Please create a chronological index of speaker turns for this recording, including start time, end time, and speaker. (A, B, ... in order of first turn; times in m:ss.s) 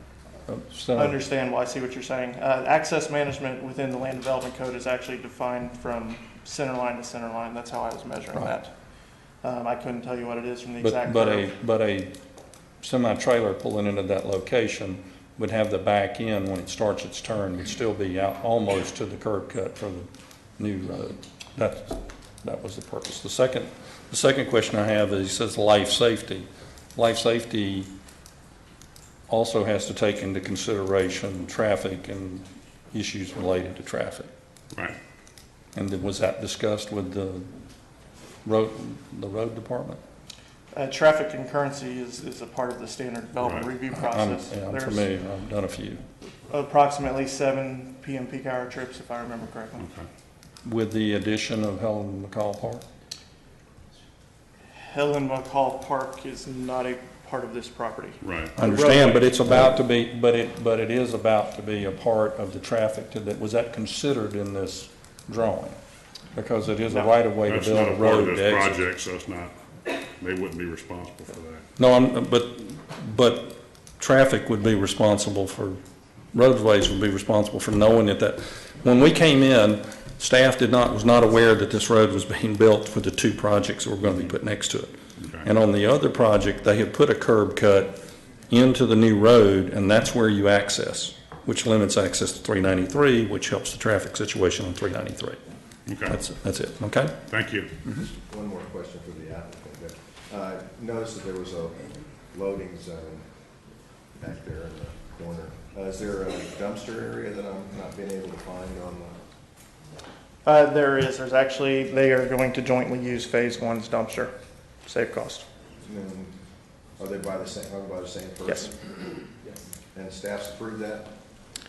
0:00.5-0:01.2 A
0:01.0-0:08.7 B
0:09.4-0:11.5 B
0:10.8-0:12.1 A
0:12.8-0:27.9 A
0:29.3-0:34.3 A
0:34.7-0:35.0 C
0:35.8-0:37.5 A
0:38.4-0:40.0 A
0:40.7-0:45.1 B
0:43.4-0:43.7 C
0:43.9-0:46.0 A
0:46.5-0:49.8 B
0:49.8-0:50.1 C
0:50.6-0:52.8 A
0:54.8-0:59.7 B
0:58.2-0:58.5 C
0:58.6-1:05.8 A
1:06.3-1:08.8 A
1:07.4-1:09.6 C
1:10.2-1:11.7 C
1:11.8-1:15.8 A
1:16.3-1:28.0 A
1:25.2-1:25.5 C
1:28.5-1:35.4 A
1:35.9-1:36.2 C
1:36.1-1:37.2 A
1:37.3-1:37.7 C
1:38.1-1:43.2 D
1:44.2-1:49.2 D
1:50.4-1:54.3 B
1:54.8-1:55.5 B
1:55.8-1:56.3 D
1:57.0-1:58.8 D
1:59.9-2:01.1 D